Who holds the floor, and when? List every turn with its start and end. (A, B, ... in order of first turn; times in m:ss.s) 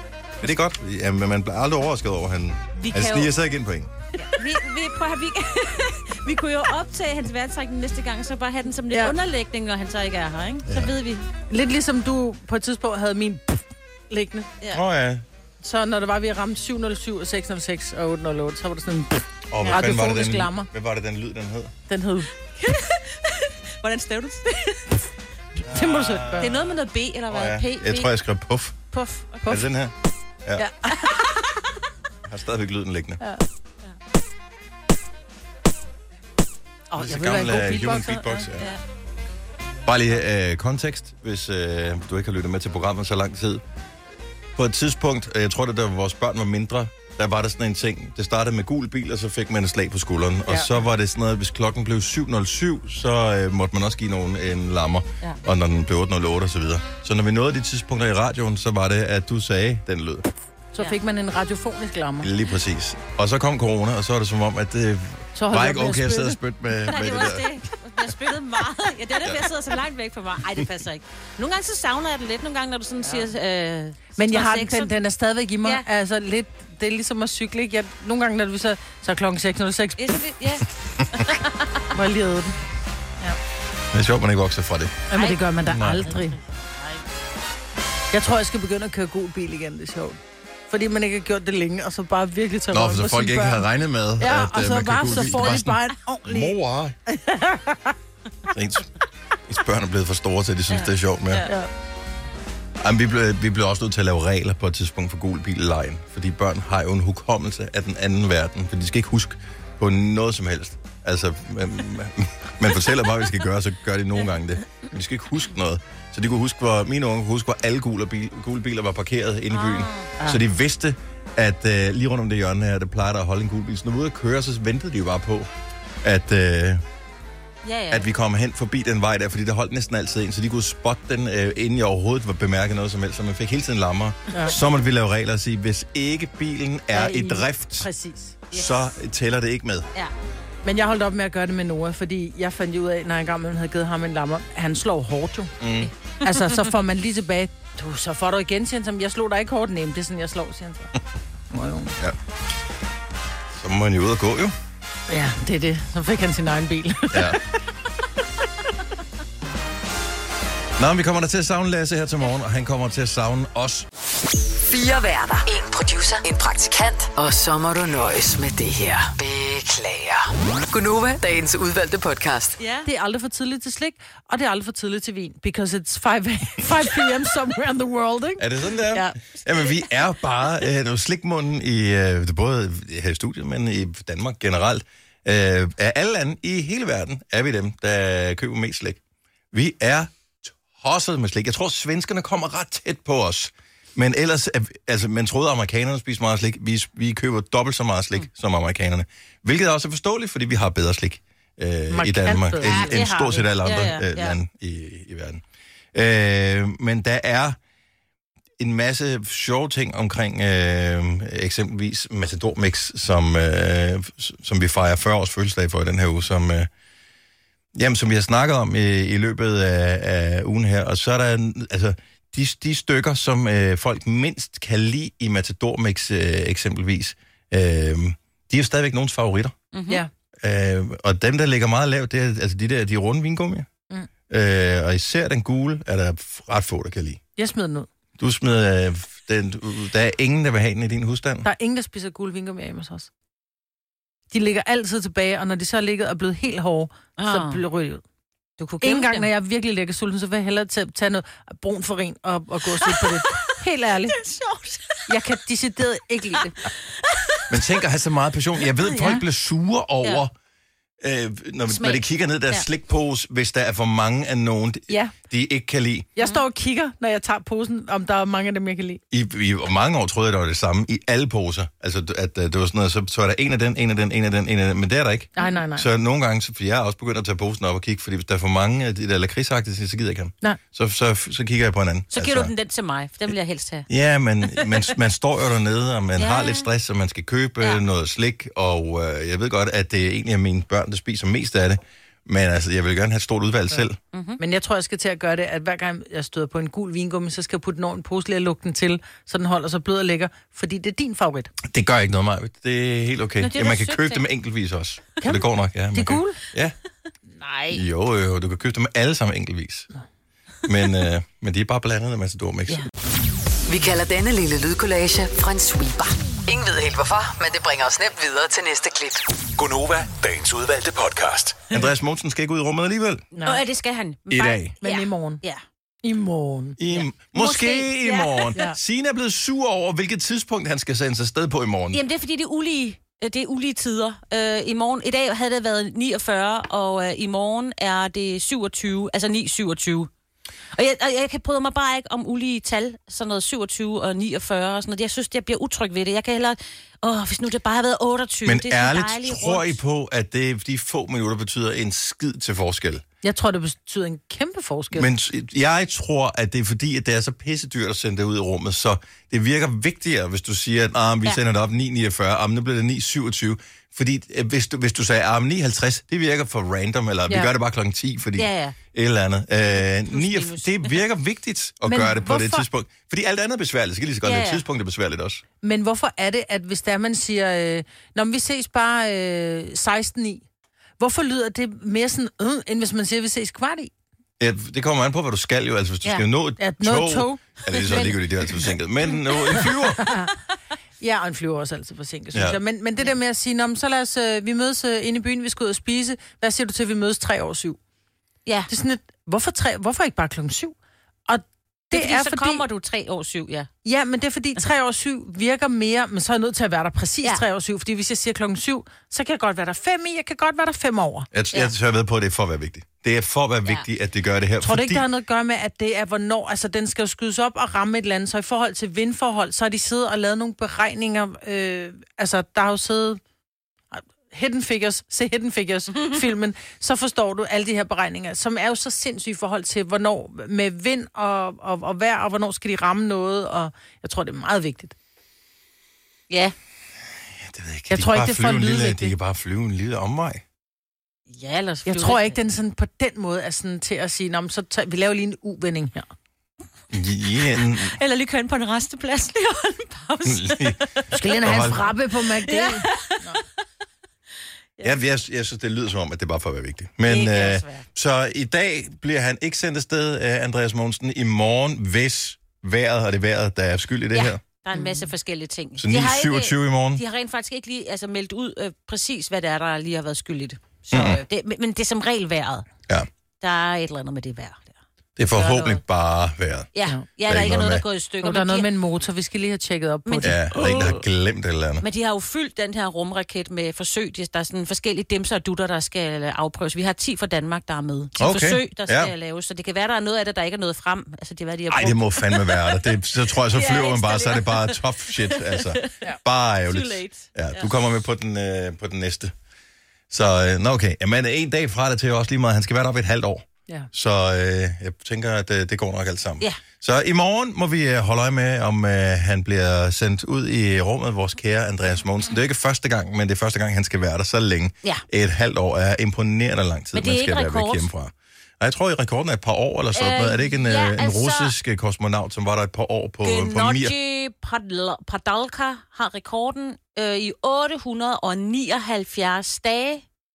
0:00.4-0:03.9 A
0:02.8-0:03.3 B
0:04.2-0:11.2 B
0:10.6-0:10.9 A
0:11.5-0:14.5 C
0:14.7-0:15.2 A
0:15.6-0:20.7 C
0:19.5-0:21.7 A
0:21.9-0:22.3 C
0:22.6-0:25.0 B
0:25.6-0:26.8 A
0:25.6-0:26.5 C
0:26.4-0:28.1 B
0:27.3-0:28.8 A
0:28.9-0:29.7 C
0:29.5-0:29.9 A
0:30.6-0:31.2 C
0:31.0-0:31.6 B
0:32.3-0:33.2 A
0:36.9-0:38.4 C
0:36.9-0:38.7 A
0:39.8-0:43.6 A
0:44.6-1:00.3 A
1:00.7-1:02.3 C
1:02.2-1:07.5 A
1:05.4-1:06.4 C
1:06.9-1:14.9 B
1:14.2-1:20.1 C
1:20.0-1:21.8 B
1:21.9-1:22.6 C
1:23.9-1:25.0 A
1:25.1-1:26.4 C
1:25.1-1:25.4 B
1:25.7-1:26.1 A
1:26.0-1:27.0 B
1:28.1-1:33.6 C
1:32.7-1:37.0 A
1:34.2-1:36.6 C
1:37.1-1:37.9 C
1:38.5-1:38.9 A
1:39.4-1:41.5 A
1:40.7-1:41.5 B
1:42.8-2:05.5 A
1:59.5-2:00.2 B
2:06.0-2:06.8 A
2:07.6-2:08.1 B
2:07.9-2:17.9 A
2:14.3-2:14.6 C
2:16.9-2:18.4 C
2:18.5-2:19.9 A
2:20.6-2:25.5 C
2:25.6-2:25.9 A
2:25.8-2:26.6 B
2:26.2-2:30.9 C
2:31.5-2:32.0 C
2:33.5-2:34.5 A
2:35.1-2:37.4 C
2:37.1-2:37.4 A
2:40.8-2:43.9 A
2:44.7-2:52.6 D
2:52.6-2:52.9 B
2:52.8-2:59.1 C
2:58.4-3:09.0 A
2:59.3-3:00.0 B
3:09.5-3:25.4 A
3:21.9-3:23.2 C
3:22.6-3:24.4 B
3:25.9-3:27.6 A
3:28.6-3:36.7 A
3:37.7-3:49.5 A
3:49.7-3:50.0 B
3:50.4-3:53.7 A
3:54.3-3:57.2 A
3:57.4-3:57.9 C
3:58.2-4:01.5 A
4:01.4-4:03.1 C
4:04.3-4:08.0 C
4:07.2-4:07.6 B
4:08.6-4:09.3 B
4:08.8-4:14.2 C
4:12.7-4:13.5 B
4:14.1-4:15.1 B
4:15.1-4:16.6 C
4:16.6-4:17.4 B
4:17.5-4:20.3 A
4:18.8-4:19.2 B
4:21.0-4:26.1 A
4:21.7-4:22.6 B
4:26.2-4:29.0 C
4:26.2-4:26.4 B
4:29.1-4:42.5 A
4:35.4-4:35.9 C
4:42.1-4:43.9 B
4:43.9-4:54.0 A
4:44.5-4:44.9 B
4:46.2-4:46.7 B
4:54.1-4:54.4 B
4:54.4-5:01.5 C
5:01.6-5:06.8 A
5:03.4-5:04.2 B
5:05.2-5:06.4 C
5:07.4-5:07.8 B
5:07.7-5:09.9 A
5:10.6-5:12.9 A
5:13.7-5:19.2 D
5:19.6-5:21.7 E
5:21.7-5:23.3 A
5:23.3-5:23.6 C
5:23.4-5:25.6 B
5:24.3-5:24.7 A
5:24.8-5:25.4 C
5:26.0-5:26.8 C
5:26.8-5:32.0 A
5:26.9-5:28.6 B
5:31.9-5:40.1 B
5:40.7-5:49.8 B
5:48.4-5:53.0 A
5:53.2-5:55.1 C
5:54.9-6:15.4 A
6:08.4-6:08.8 B
6:09.7-6:11.0 B
6:11.9-6:12.6 C
6:14.2-6:14.6 B
6:15.6-6:20.4 C
6:21.0-6:23.9 C
6:24.4-6:30.1 A
6:26.6-6:28.1 C
6:27.9-6:28.1 B
6:30.0-6:30.3 C
6:31.0-6:37.8 C
6:32.3-6:32.6 A
6:38.7-6:40.8 C
6:41.3-6:42.6 C
6:41.9-6:43.7 B
6:43.8-6:51.3 C
6:51.3-6:55.0 A
6:54.6-7:03.2 C
7:03.9-7:14.9 C
7:16.3-7:16.5 B
7:17.4-7:20.4 A
7:17.9-7:19.1 C
7:21.3-7:22.4 B
7:21.8-7:26.0 C
7:26.9-7:28.0 A
7:27.7-7:33.4 B
7:30.2-7:30.8 A
7:31.1-7:33.4 C
7:31.4-7:31.8 A
7:34.8-7:44.4 A
7:37.0-7:37.8 B
7:44.1-7:52.6 B
7:44.7-7:45.1 C
7:45.8-7:47.0 A
7:50.9-7:51.2 A
7:53.4-7:54.8 B
7:55.2-7:56.7 A
7:55.4-7:55.7 C
7:56.7-7:58.7 B
7:57.3-7:57.8 A
7:58.2-8:00.4 C
8:00.0-8:01.0 B
8:00.2-8:01.8 A
8:01.8-8:12.8 B
8:08.2-8:09.1 A
8:11.7-8:19.3 A
8:13.5-8:16.0 B
8:16.6-8:17.7 B
8:20.1-8:43.9 A
8:36.9-8:37.9 B
8:39.9-8:41.5 B
8:43.2-8:50.0 B